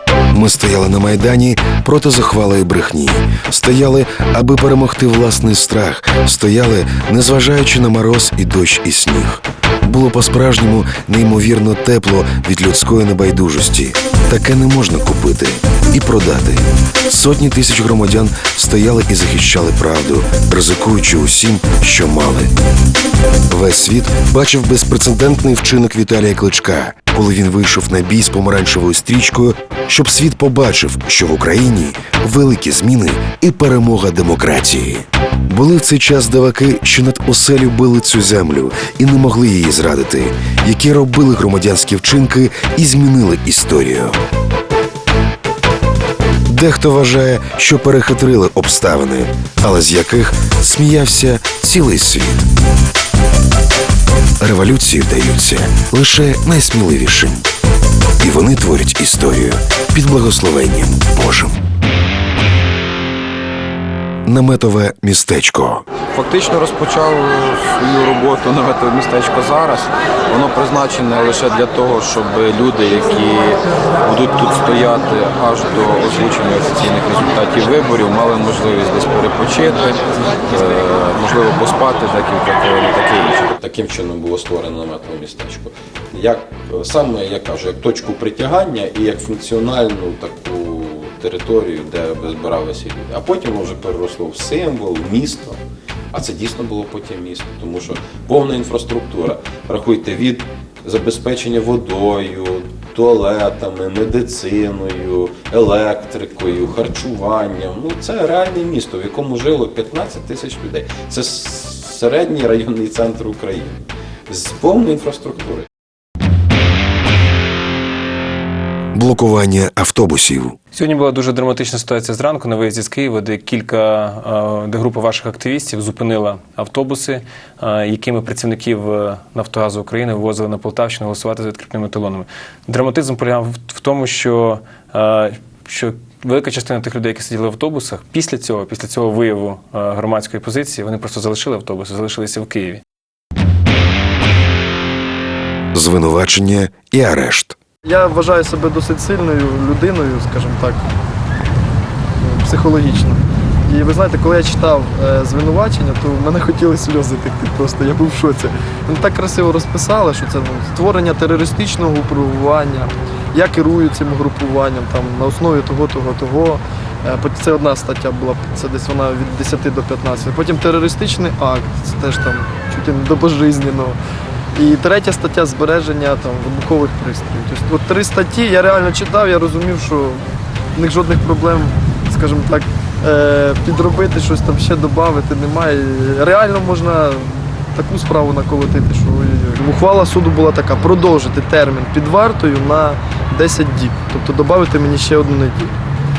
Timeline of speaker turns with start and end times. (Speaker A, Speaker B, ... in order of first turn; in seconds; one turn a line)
Speaker A: 0.3-22.5
Speaker A: 23.5-44.2
Speaker A: 46.5-52.5
Speaker A: 54.4-57.5
Speaker A: 58.2-61.6
Speaker A: 64.3-65.8
Speaker B: 66.2-77.2
Speaker B: 77.8-78.0
Speaker B: 78.7-80.0
Speaker C: 81.4-82.1
Speaker B: 82.5-83.2
Speaker C: 83.3-95.6
Speaker C: 96.1-115.7
Speaker A: 119.0-120.6
Speaker D: 120.7-142.8
Speaker A: 145.7-147.6
Speaker E: 147.8-150.8
Speaker E: 152.2-174.0
Speaker E: 174.5-180.2
Speaker E: 180.8-195.8